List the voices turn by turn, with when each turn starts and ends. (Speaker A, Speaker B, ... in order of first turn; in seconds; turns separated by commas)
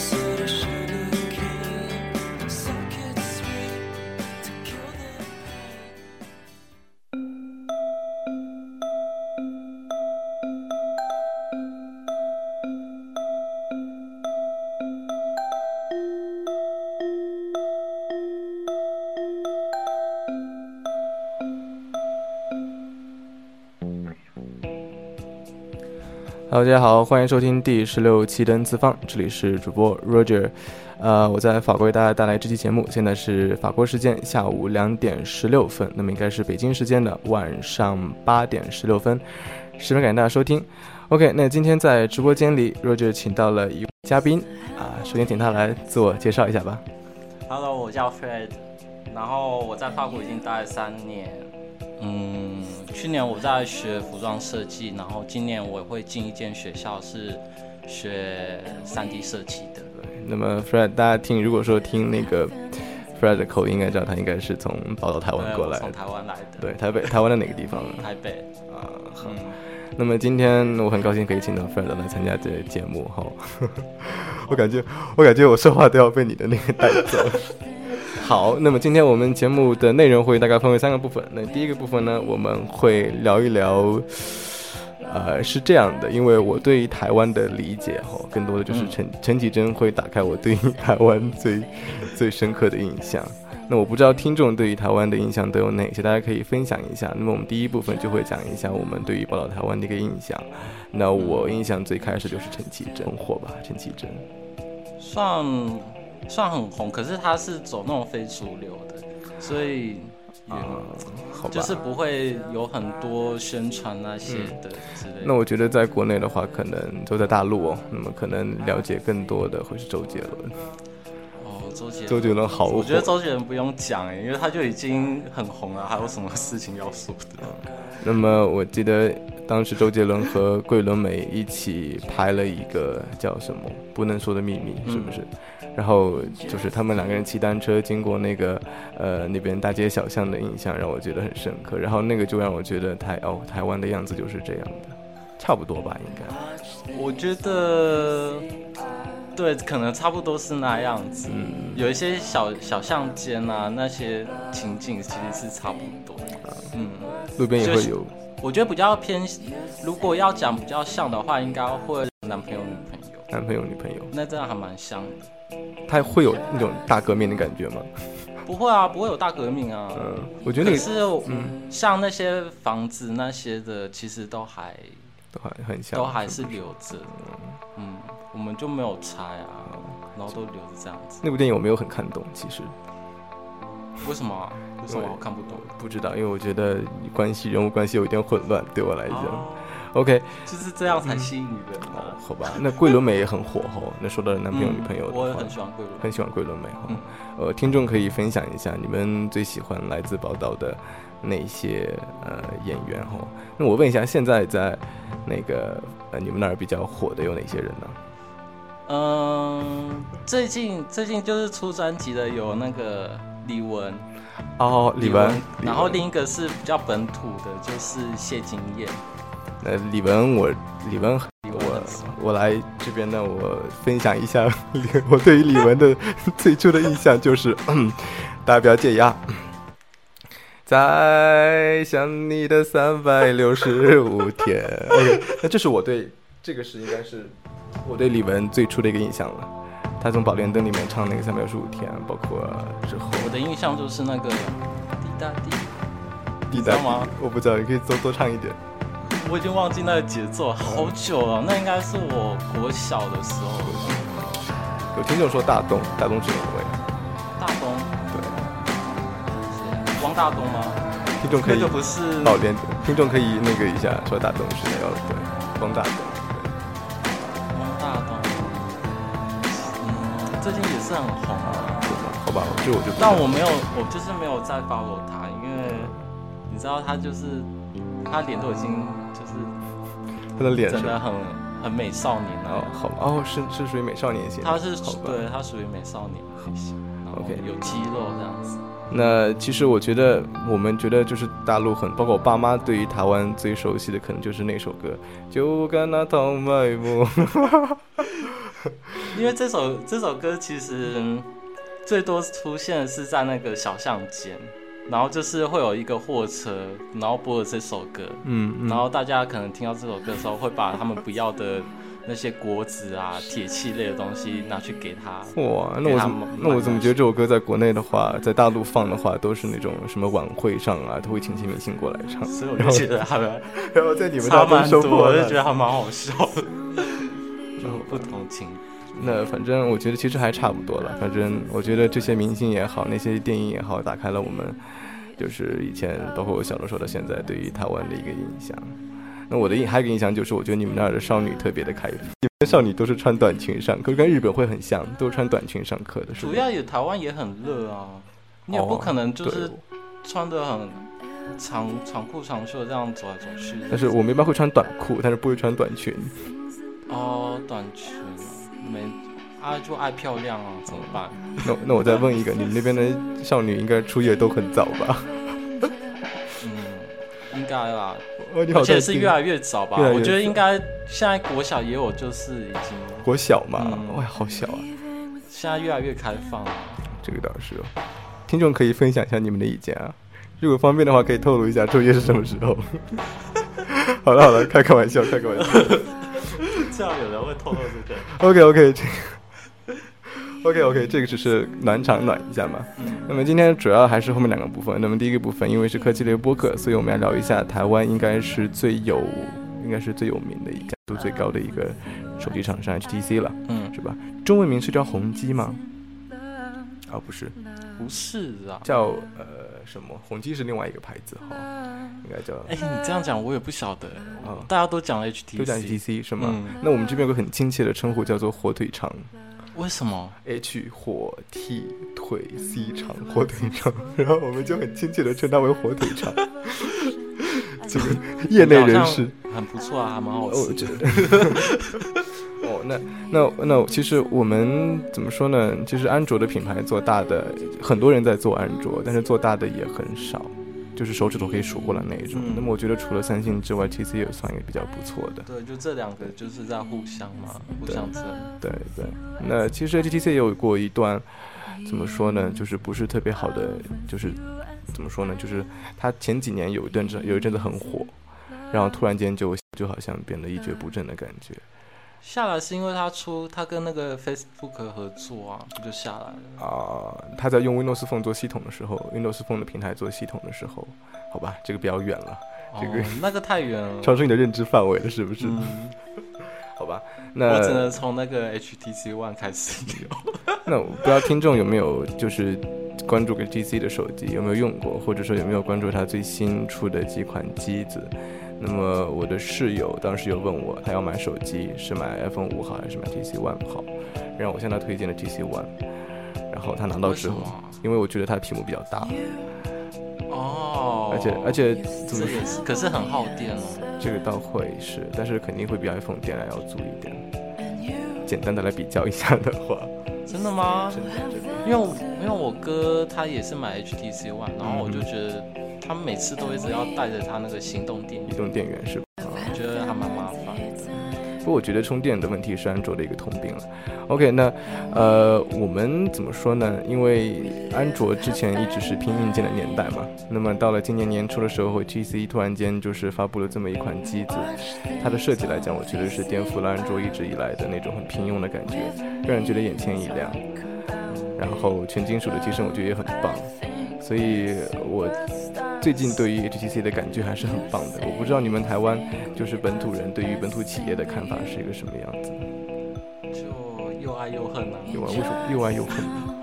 Speaker A: 0.2-1.4, Speaker A: 26.5-46.8, Speaker B: 47.5-59.9, Speaker A: 59.9-66.0, Speaker B: 65.3-67.1, Speaker A: 66.6-68.1, Speaker B: 67.9-68.5, Speaker A: 68.7-104.3, Speaker B: 69.2-69.6, Speaker B: 88.7-89.0, Speaker B: 101.1-101.6, Speaker B: 105.0-115.3, Speaker A: 110.5-111.8, Speaker A: 114.2-114.6, Speaker A: 115.2-120.6, Speaker B: 121.3-127.6, Speaker A: 122.1-123.1, Speaker A: 127.4-146.4, Speaker B: 134.8-135.2, Speaker B: 146.7-148.5, Speaker B: 149.3-163.3, Speaker A: 151.3-151.9, Speaker A: 157.3-158.1, Speaker A: 163.3-164.1, Speaker B: 164.1-165.3, Speaker A: 165.9-167.9, Speaker B: 168.4-175.1, Speaker A: 169.9-171.6, Speaker A: 175.3-177.6, Speaker B: 175.9-177.2, Speaker B: 177.7-181.2, Speaker A: 181.2-182.8, Speaker B: 184.0-185.7, Speaker A: 184.9-190.4, Speaker B: 189.1-189.8, Speaker B: 190.4-192.8, Speaker A: 191.0-191.3, Speaker A: 191.8-208.0, Speaker B: 194.5-196.1, Speaker B: 208.9-214.1, Speaker A: 214.6-216.0, Speaker B: 215.0-219.0, Speaker A: 219.6-229.5, Speaker B: 221.4-222.1, Speaker A: 230.7-243.3, Speaker B: 243.1-245.7, Speaker B: 246.5-247.1, Speaker A: 246.5-248.6, Speaker B: 249.2-254.1, Speaker A: 250.6-250.9, Speaker A: 253.7-256.8, Speaker B: 257.4-257.9, Speaker A: 258.1-258.4, Speaker B: 259.0-262.4, Speaker A: 261.2-266.6, Speaker B: 267.5-268.9, Speaker B: 269.4-272.0, Speaker A: 271.4-273.4, Speaker B: 273.0-275.9, Speaker A: 275.7-276.0, Speaker B: 276.5-277.5, Speaker B: 278.0-279.6, Speaker A: 280.4-281.0, Speaker B: 280.7-282.8, Speaker A: 282.5-285.2, Speaker B: 284.4-288.8, Speaker A: 287.1-287.6, Speaker A: 288.9-298.7, Speaker B: 299.1-301.3, Speaker B: 301.8-317.0, Speaker A: 308.2-308.9, Speaker A: 315.3-322.9, Speaker B: 322.3-323.6, Speaker A: 323.5-325.4, Speaker B: 324.1-329.2, Speaker A: 327.6-328.1, Speaker A: 328.9-334.6, Speaker A: 335.1-346.4, Speaker B: 346.2-354.0, Speaker A: 348.5-349.6, Speaker A: 353.7-356.3, Speaker B: 356.9-362.2, Speaker A: 360.8-365.7, Speaker B: 366.4-374.0, Speaker A: 368.2-369.2, Speaker A: 369.7-370.4, Speaker A: 373.0-374.7, Speaker B: 375.3-376.9, Speaker A: 376.9-377.7, Speaker A: 378.3-385.9, Speaker B: 385.4-388.2, Speaker A: 388.1-389.2, Speaker A: 390.1-405.6, Speaker B: 392.8-393.1, Speaker B: 403.5-403.7, Speaker A: 406.9-407.4, Speaker B: 407.8-408.7, Speaker A: 408.6-411.5, Speaker A: 412.0-412.5, Speaker B: 412.4-416.6, Speaker A: 414.2-414.5, Speaker A: 415.4-419.1, Speaker B: 419.5-420.2, Speaker A: 420.2-429.1, Speaker B: 427.7-431.9, Speaker A: 430.3-431.5, Speaker A: 432.3-445.3, Speaker B: 442.1-442.5, Speaker B: 445.2-448.3, Speaker A: 447.6-447.9, Speaker A: 448.4-457.9, Speaker A: 458.5-461.4, Speaker B: 462.0-466.4, Speaker A: 466.4-473.0, Speaker B: 472.5-474.0, Speaker A: 473.8-475.6, Speaker B: 475.2-475.7, Speaker A: 476.2-477.8, Speaker B: 477.2-480.4, Speaker A: 480.4-495.5, Speaker A: 496.3-499.0, Speaker B: 496.8-497.6, Speaker B: 500.1-503.7, Speaker A: 500.9-502.4, Speaker A: 503.8-507.1, Speaker A: 508.1-509.7, Speaker B: 510.1-510.9, Speaker A: 510.7-511.7, Speaker B: 511.4-518.2, Speaker A: 514.4-514.9, Speaker A: 518.1-519.4, Speaker B: 519.2-520.7, Speaker A: 520.8-540.2, Speaker B: 540.9-541.2, Speaker A: 541.1-545.0, Speaker A: 545.6-552.3, Speaker B: 553.1-555.1, Speaker A: 554.7-556.1